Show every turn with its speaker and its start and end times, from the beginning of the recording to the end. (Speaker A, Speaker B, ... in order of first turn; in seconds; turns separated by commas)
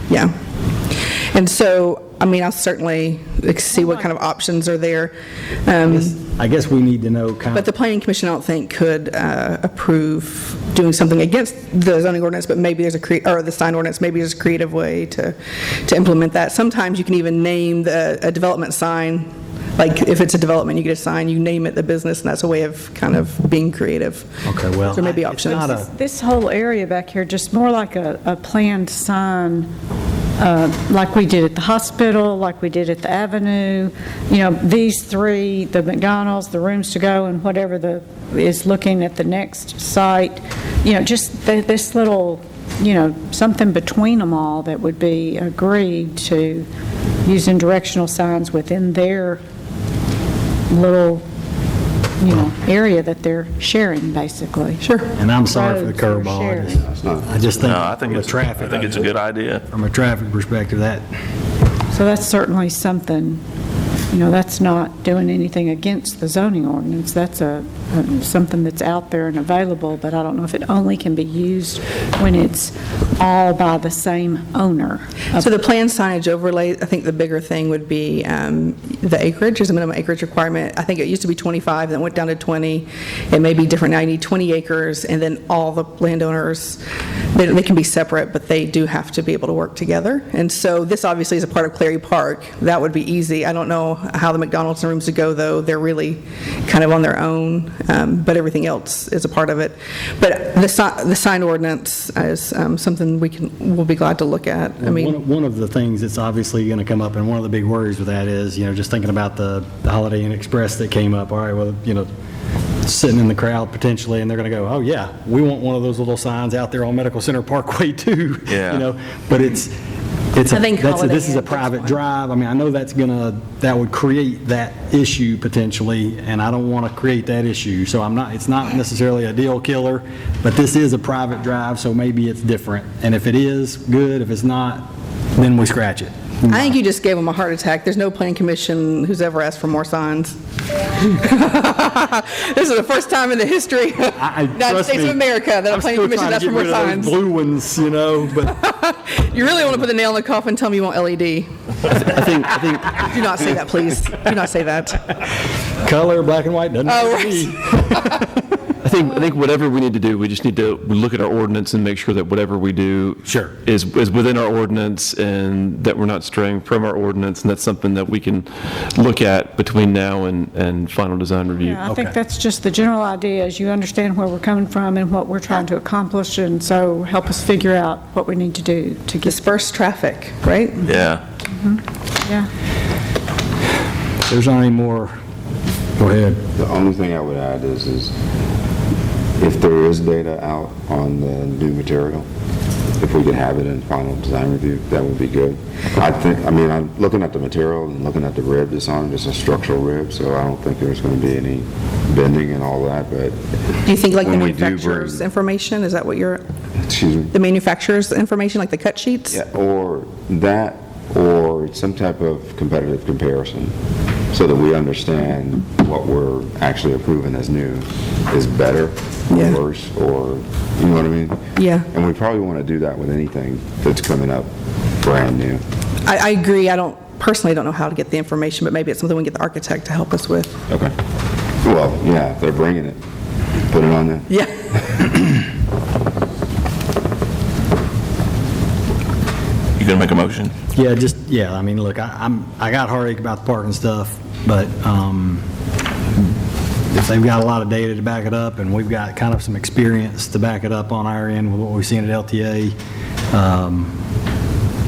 Speaker A: 0.1-0.3, Speaker A: 1.3-6.2, Speaker B: 5.9-7.7, Speaker A: 7.5-25.8, Speaker B: 24.5-25.9, Speaker C: 25.5-29.7, Speaker C: 30.4-46.7, Speaker C: 47.3-49.4, Speaker C: 50.7-51.2, Speaker C: 52.2-54.8, Speaker A: 54.8-55.1, Speaker B: 55.2-59.1, Speaker C: 55.4-56.8, Speaker D: 56.8-57.4, Speaker E: 57.5-59.6, Speaker B: 59.7-61.1, Speaker C: 61.9-63.4, Speaker C: 64.1-75.5, Speaker A: 75.4-86.8, Speaker A: 87.3-105.2, Speaker B: 104.8-112.1, Speaker B: 112.8-119.7, Speaker E: 118.5-118.9, Speaker B: 120.3-136.6, Speaker A: 120.5-122.0, Speaker A: 136.5-140.4, Speaker A: 140.9-147.2, Speaker B: 144.2-148.6, Speaker A: 148.5-155.2, Speaker B: 155.8-158.3, Speaker A: 156.9-158.0, Speaker F: 158.8-171.8, Speaker B: 163.3-163.6, Speaker C: 171.6-179.6, Speaker B: 171.9-172.1, Speaker A: 179.2-180.9, Speaker E: 180.8-181.2, Speaker C: 181.5-182.5, Speaker B: 184.3-185.1, Speaker B: 186.0-186.4, Speaker D: 186.6-188.1, Speaker D: 189.4-192.3, Speaker D: 193.0-203.4, Speaker A: 203.8-206.4, Speaker D: 204.2-205.2, Speaker D: 206.9-207.3, Speaker A: 207.3-209.4, Speaker D: 209.3-213.7, Speaker D: 214.3-224.5, Speaker A: 219.3-219.6, Speaker A: 221.6-221.9, Speaker D: 225.0-225.6, Speaker A: 226.1-230.6, Speaker D: 230.7-230.9, Speaker D: 231.6-233.0, Speaker D: 233.7-234.3, Speaker A: 234.3-234.5, Speaker D: 234.9-235.2, Speaker E: 239.8-240.5, Speaker B: 240.7-245.4, Speaker B: 246.9-252.8, Speaker B: 253.3-254.0